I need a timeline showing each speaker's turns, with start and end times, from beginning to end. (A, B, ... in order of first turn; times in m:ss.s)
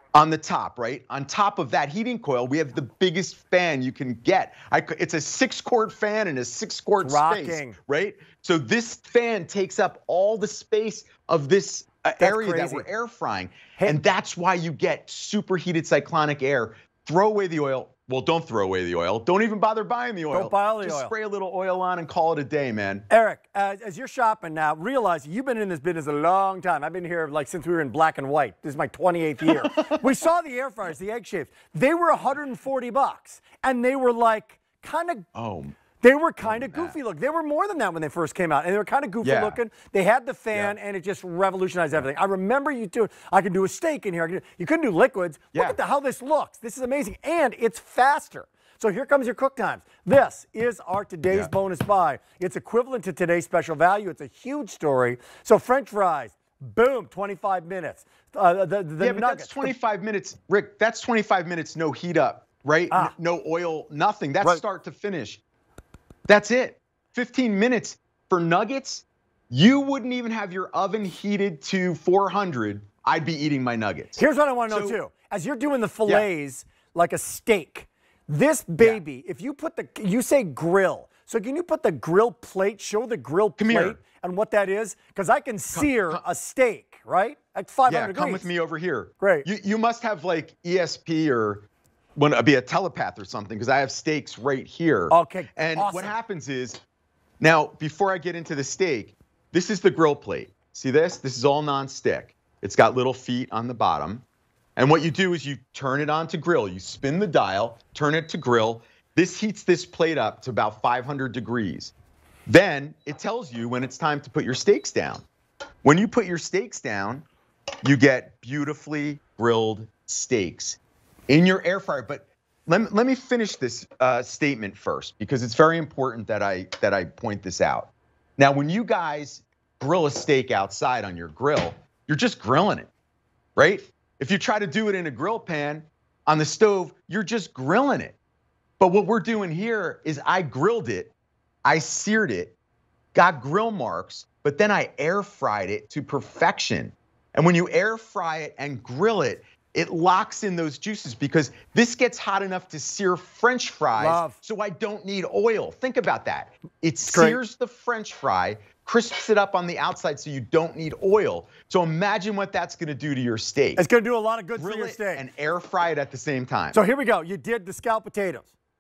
0:00.2-0:23.1 A
0:07.0-0:07.8 B
0:12.2-0:12.9 B
0:20.3-0:21.1 B
0:23.1-0:35.3 B
0:29.5-0:30.1 A
0:35.4-0:35.8 A
0:36.0-0:59.7 B
0:36.4-0:37.0 A
0:39.2-0:39.6 A
0:59.0-1:05.4 A
1:06.3-1:15.0 A
1:14.2-1:28.5 B
1:23.6-1:24.0 A
1:25.7-1:26.2 A
1:27.9-1:31.6 A
1:29.2-1:29.5 B
1:32.2-1:36.8 A
1:35.1-1:36.1 B
1:37.4-1:44.2 A
1:44.8-1:51.9 A
1:52.5-1:55.2 A
1:55.8-1:57.3 A
1:57.8-2:12.9 A
2:13.6-2:18.2 A
2:18.8-2:21.1 A
2:21.6-2:22.6 A
2:23.1-2:43.8 A
2:34.0-2:34.4 B
2:37.1-2:37.4 B
2:43.8-2:45.2 B
2:44.6-2:46.8 A
2:46.7-2:48.5 B